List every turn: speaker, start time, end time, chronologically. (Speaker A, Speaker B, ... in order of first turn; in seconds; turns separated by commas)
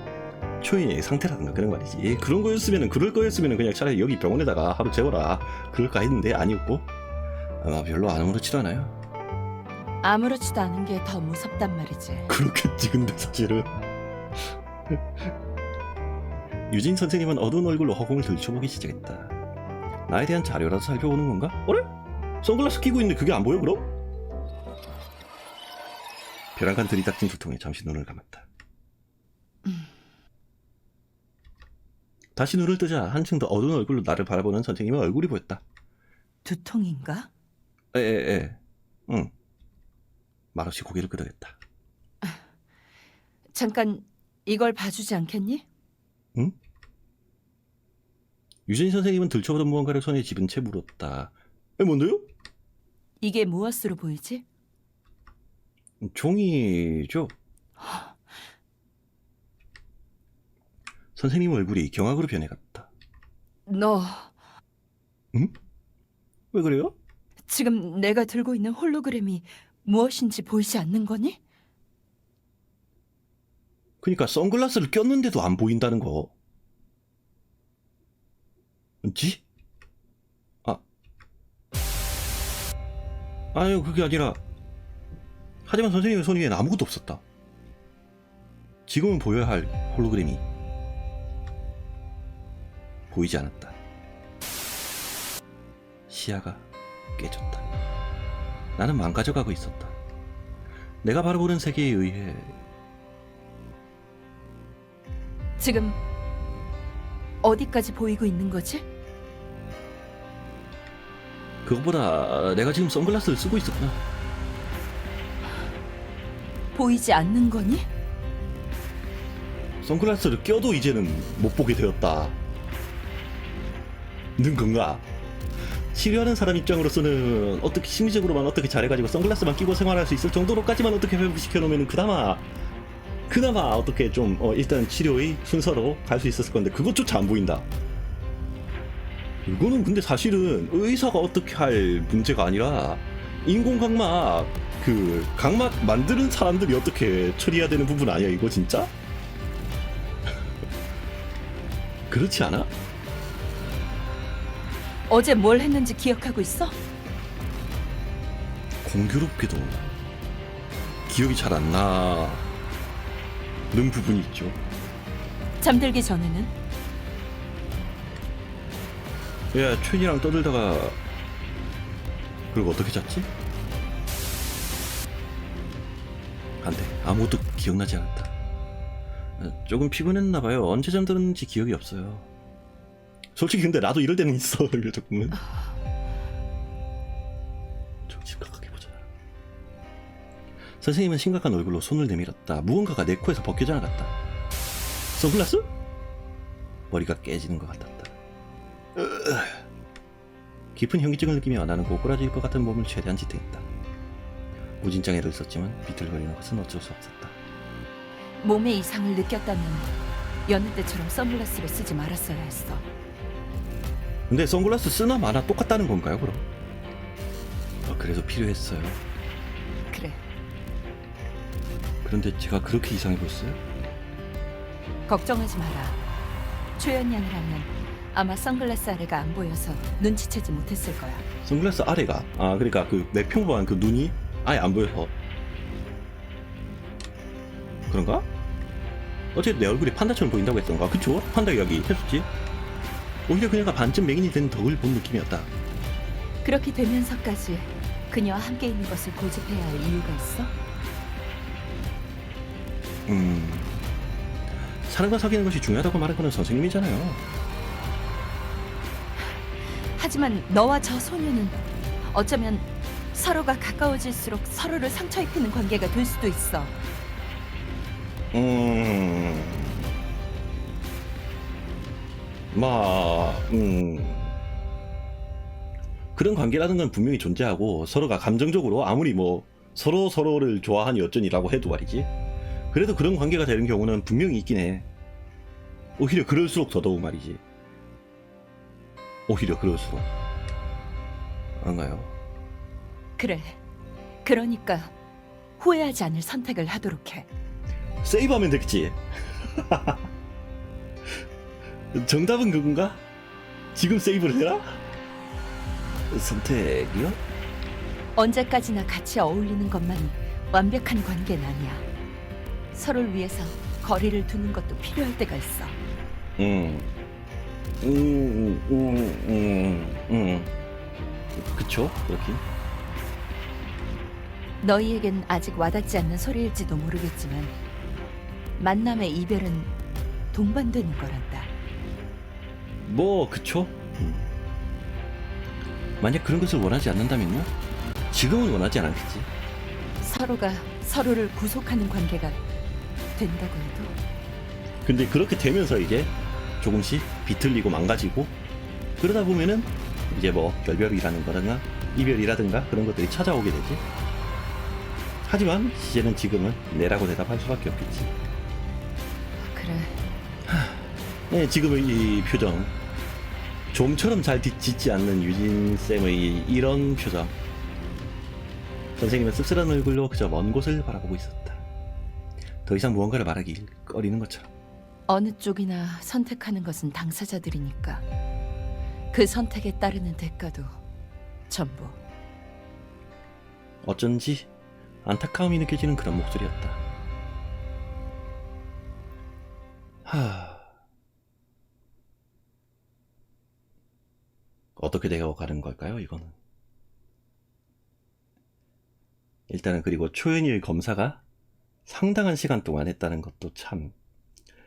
Speaker A: 0.6-6.9, Speaker A: 7.6-9.0, Speaker B: 10.0-12.3, Speaker A: 12.3-13.7, Speaker A: 14.4-15.3, Speaker A: 16.7-19.4, Speaker A: 20.1-21.9, Speaker A: 22.4-23.9, Speaker A: 26.6-28.5, Speaker A: 32.4-35.6, Speaker B: 36.5-37.3, Speaker A: 37.9-39.3, Speaker A: 40.5-41.6, Speaker B: 43.5-45.6, Speaker A: 48.7-52.3, Speaker B: 53.2-54.4, Speaker A: 56.0-57.3, Speaker B: 57.8-58.2, Speaker A: 61.2-62.9, Speaker B: 63.7-64.3, Speaker A: 66.5-67.0, Speaker B: 67.5-71.4, Speaker A: 74.0-76.3, Speaker A: 79.0-79.4, Speaker A: 83.5-84.4, Speaker A: 85.7-87.2, Speaker A: 88.9-90.4, Speaker A: 93.1-93.8, Speaker A: 96.1-97.7, Speaker A: 98.8-100.0, Speaker A: 101.0-102.5, Speaker B: 105.6-106.0, Speaker B: 107.4-108.8, Speaker A: 111.7-114.0, Speaker B: 116.7-117.9, Speaker A: 119.8-122.4, Speaker A: 124.4-125.0, Speaker A: 125.9-132.5, Speaker A: 133.3-137.7, Speaker A: 139.5-148.9, Speaker A: 152.1-152.7, Speaker B: 155.1-156.8, Speaker A: 158.8-159.9, Speaker A: 161.1-162.4, Speaker A: 163.7-164.6, Speaker B: 165.6-166.5, Speaker A: 169.5-171.0, Speaker A: 172.5-173.3, Speaker A: 176.6-178.3, Speaker A: 179.4-182.3, Speaker A: 183.3-185.4, Speaker A: 188.1-189.0, Speaker A: 190.8-194.1, Speaker A: 195.2-195.7, Speaker A: 196.9-198.1, Speaker A: 198.9-199.6, Speaker A: 200.8-203.7, Speaker A: 204.8-207.4, Speaker B: 208.4-209.9, Speaker B: 210.5-212.8, Speaker A: 214.3-216.4, Speaker A: 217.9-219.0, Speaker B: 219.9-220.2, Speaker A: 222.0-223.6, Speaker B: 225.1-226.0, Speaker B: 226.8-231.2, Speaker A: 231.4-235.1, Speaker A: 237.9-238.3, Speaker A: 239.3-242.3, Speaker A: 243.3-245.5, Speaker B: 246.4-250.5, Speaker A: 253.1-253.8, Speaker A: 254.9-257.2, Speaker B: 259.2-266.8, Speaker A: 268.3-269.9, Speaker A: 272.5-274.4, Speaker A: 276.1-282.1, Speaker A: 282.7-284.9, Speaker A: 286.0-287.4, Speaker A: 289.3-290.1, Speaker A: 291.6-292.1, Speaker B: 293.2-293.6, Speaker B: 294.2-294.9, Speaker B: 295.6-297.3, Speaker A: 298.0-300.1, Speaker A: 301.9-303.0, Speaker A: 303.7-304.8, Speaker A: 306.1-307.2, Speaker B: 308.2-311.8, Speaker B: 312.7-315.8, Speaker A: 316.4-316.9, Speaker A: 317.8-320.5, Speaker A: 321.4-322.4, Speaker B: 324.6-327.6, Speaker B: 328.6-329.7, Speaker B: 330.3-331.5, Speaker A: 332.9-334.3, Speaker A: 336.0-337.5, Speaker A: 338.1-339.3, Speaker B: 340.0-342.4, Speaker B: 343.2-343.9, Speaker A: 344.9-348.4, Speaker A: 349.0-353.8, Speaker A: 355.2-358.1, Speaker B: 359.4-360.0, Speaker A: 360.5-362.8, Speaker A: 363.7-367.4, Speaker A: 369.0-371.6, Speaker A: 372.6-374.5, Speaker B: 375.1-378.0, Speaker B: 379.1-380.7, Speaker B: 381.5-382.0, Speaker A: 383.8-384.5, Speaker A: 385.0-386.8, Speaker A: 390.1-390.7, Speaker A: 394.8-396.4, Speaker A: 399.5-401.2, Speaker A: 401.9-403.9